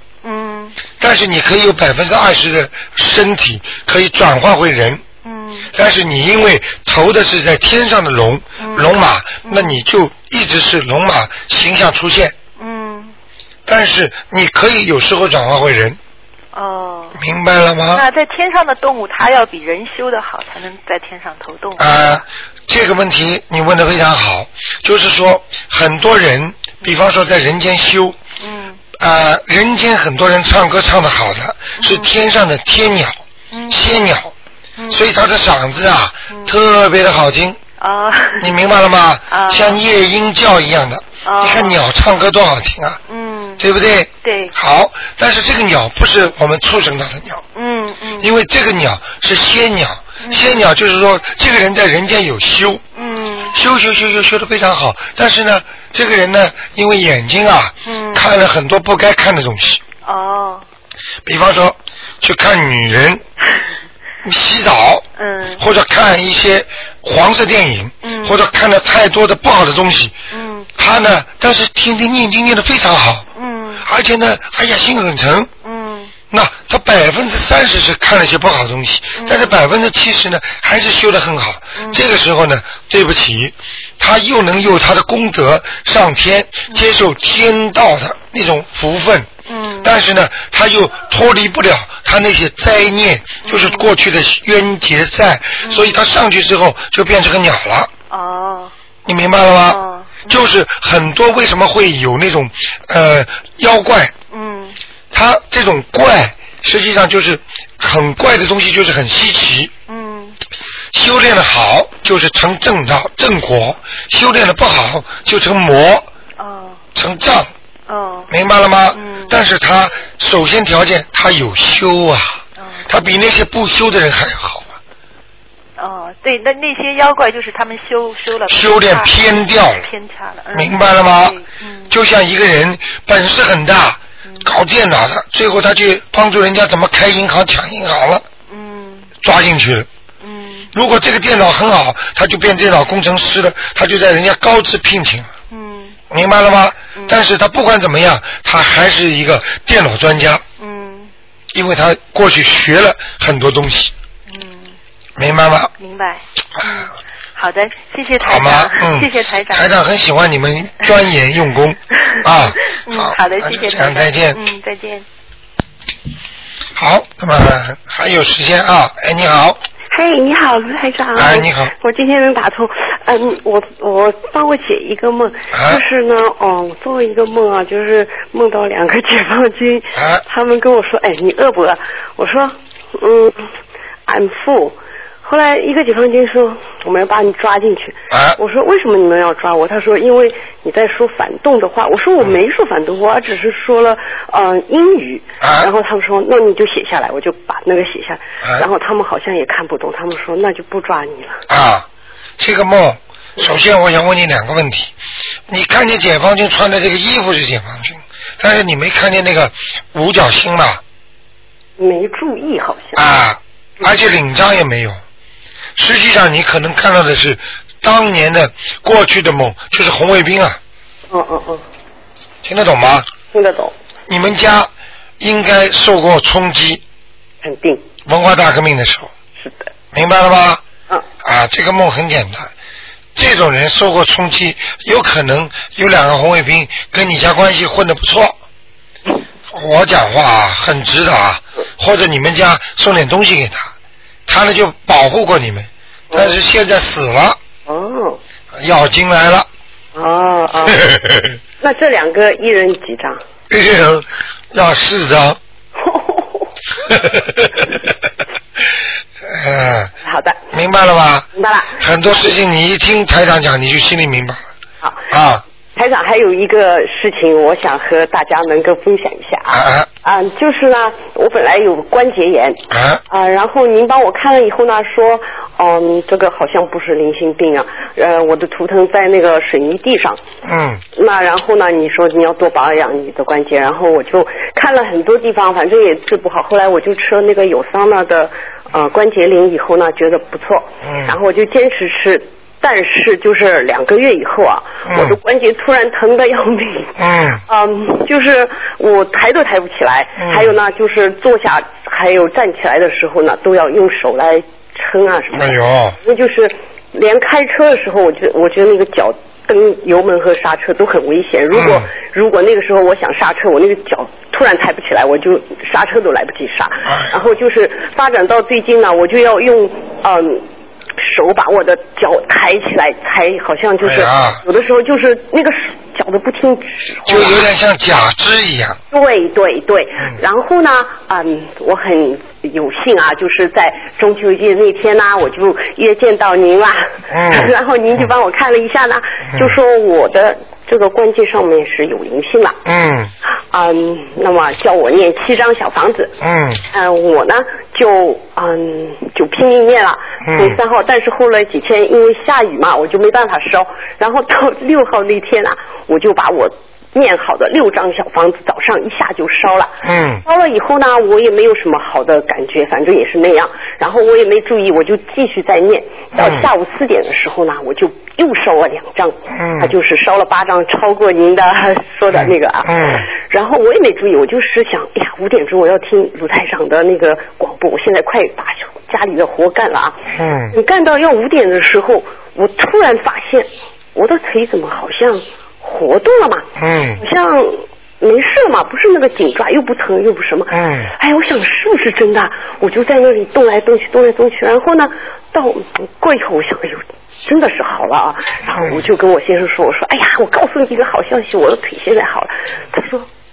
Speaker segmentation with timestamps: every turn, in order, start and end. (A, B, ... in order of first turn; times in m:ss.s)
0:00.2-0:00.8 A
0:01.0-0:05.0 B
0:05.2-0:05.7 A
0:05.7-0:12.4 B
0:08.6-0:09.8 A
0:12.6-0:13.1 A
0:13.7-0:16.0 B
0:16.5-0:17.2 A
0:17.2-0:18.1 B
0:17.9-0:22.1 A
0:21.8-0:28.2 B
0:28.4-0:28.8 A
0:29.0-0:34.3 B
0:31.8-0:32.1 A
0:33.5-0:33.9 A
0:34.8-0:35.0 A
0:34.9-0:37.6 B
0:36.3-0:36.6 A
0:37.8-0:38.5 A
0:38.4-0:43.0 B
0:39.3-0:39.8 A
0:41.2-0:41.8 A
0:43.1-0:43.6 A
0:43.6-0:47.4 B
0:44.2-0:44.6 A
0:47.6-0:48.3 A
0:48.2-0:52.8 B
0:50.2-0:50.6 A
0:53.0-0:53.6 A
0:53.5-0:59.8 B
0:57.8-0:58.3 A
1:00.0-1:00.6 A
1:01.2-1:03.2 B
1:04.2-1:05.0 B
1:05.2-1:05.6 A
1:05.6-1:10.2 B
1:08.0-1:08.4 A
1:10.3-1:10.7 A
1:10.8-1:13.3 B
1:13.4-1:13.9 A
1:13.8-1:15.5 B
1:15.6-1:16.1 A
1:16.3-1:29.3 B
1:19.2-1:19.6 A
1:21.8-1:22.0 A
1:29.5-1:29.9 A
1:29.8-1:37.9 B
1:33.4-1:33.9 A
1:35.6-1:36.0 A
1:38.1-1:38.7 A
1:39.1-1:44.1 B
1:39.6-1:40.4 A
1:44.3-1:44.8 A
1:45.1-1:49.7 B
1:49.9-1:50.4 A
1:50.9-1:56.1 B
1:56.4-1:56.8 A
1:57.0-1:57.5 B
1:57.9-1:58.3 A
1:58.3-2:04.8 B
1:58.9-1:59.4 A
2:02.6-2:03.0 A
2:05.8-2:12.0 A
2:08.5-2:09.9 B
2:10.5-2:18.2 B
2:18.5-2:19.1 A
2:19.2-2:19.9 B
2:20.2-2:20.7 A
2:20.7-2:25.3 B
2:25.5-2:26.0 A
2:26.1-2:30.4 B
2:30.6-2:31.1 A
2:31.5-2:33.9 B
2:34.3-2:34.8 A
2:35.2-2:35.7 B
2:35.8-2:39.8 A
2:36.6-2:36.8 B
2:38.2-2:44.4 B
2:42.2-2:45.0 A
2:46.8-2:49.6 B
2:49.9-3:03.5 C
2:51.2-2:51.7 B
2:55.5-2:55.8 B
3:00.0-3:00.2 B
3:04.1-3:21.4 C
3:08.1-3:08.4 B
3:15.4-3:15.7 B
3:21.5-3:21.9 B
3:22.4-3:24.9 B
3:25.5-3:30.8 B
3:31.8-3:33.0 C
3:33.0-3:35.0 B
3:35.8-3:40.6 B
3:41.1-3:41.6 C
3:42.4-3:43.1 B
3:43.3-3:43.7 C
3:44.1-3:46.8 B
3:47.4-3:47.8 C
3:48.1-3:49.1 B
3:49.4-3:49.7 C
3:49.9-3:50.6 B
3:51.2-3:52.5 B
3:53.2-3:58.4 B
3:59.5-4:03.7 B
4:04.3-4:07.4 B
4:06.1-4:06.4 C
4:07.7-4:08.2 C
4:08.6-4:09.5 B
4:10.0-4:10.8 C
4:10.7-4:11.4 B
4:11.6-4:13.2 C
4:13.5-4:15.4 B
4:15.8-4:16.5 C
4:16.9-4:17.8 B
4:19.2-4:19.9 B
4:20.0-4:20.4 C
4:20.5-4:21.3 B
4:21.4-4:22.3 C
4:21.8-4:24.4 B
4:25.1-4:25.4 B
4:25.8-4:40.2 C
4:29.5-4:29.9 B
4:32.7-4:33.0 B
4:40.4-4:40.8 B
4:41.0-5:20.4 C
4:50.8-4:51.2 B
4:54.8-4:55.2 B
4:57.0-4:57.4 B
5:00.2-5:00.5 B
5:05.3-5:06.0 B
5:11.5-5:11.8 B
5:16.8-5:17.1 B
5:21.0-5:27.4 C
5:23.8-5:24.4 B
5:27.1-5:28.8 B
5:28.9-5:42.6 C
5:37.1-5:38.0 B
5:42.6-5:43.1 B
5:43.5-5:46.2 C
5:46.2-5:46.6 B
5:46.7-6:26.5 C
5:50.2-5:50.6 B
5:59.8-6:00.2 B
6:06.2-6:06.5 B
6:09.3-6:09.8 B
6:12.1-6:13.1 B
6:20.1-6:20.6 B
6:26.6-6:27.0 B
6:27.0-6:43.1 C
6:30.5-6:30.9 B
6:38.5-6:38.8 B